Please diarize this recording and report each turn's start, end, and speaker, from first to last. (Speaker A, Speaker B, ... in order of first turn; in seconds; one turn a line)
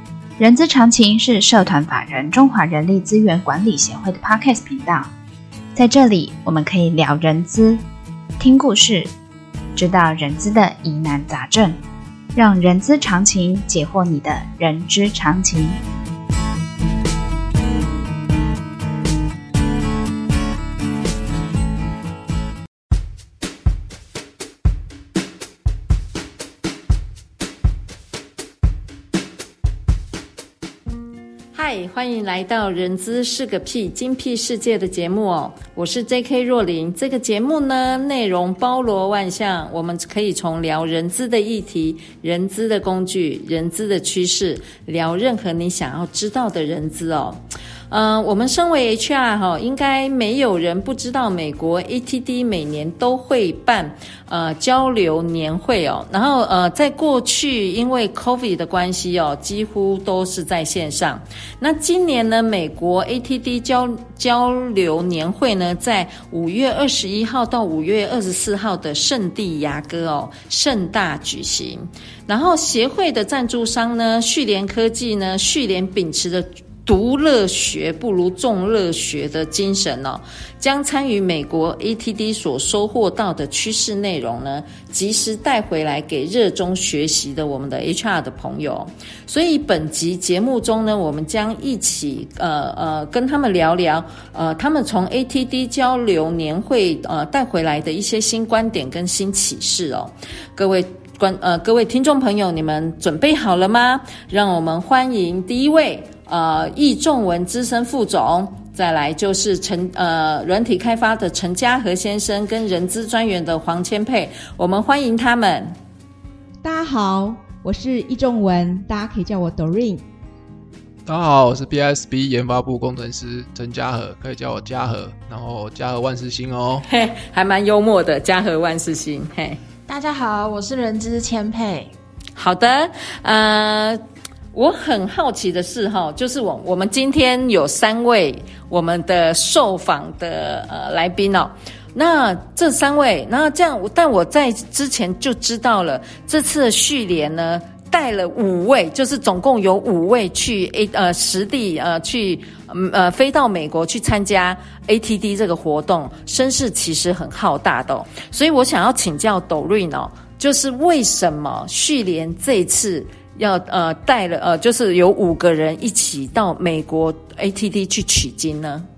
Speaker A: 0.4-5.1
Speaker A: 5.8-7.8
Speaker A: 8.4-9.1
Speaker A: 9.8-11.8
Speaker A: 12.3-15.8
Speaker B: 31.5-115.8
Speaker C: 116.6-120.0
Speaker D: 121.1-126.8
Speaker B: 126.9-129.6
Speaker E: 129.9-131.9
Speaker B: 132.4-134.0
Speaker B: 134.5-168.9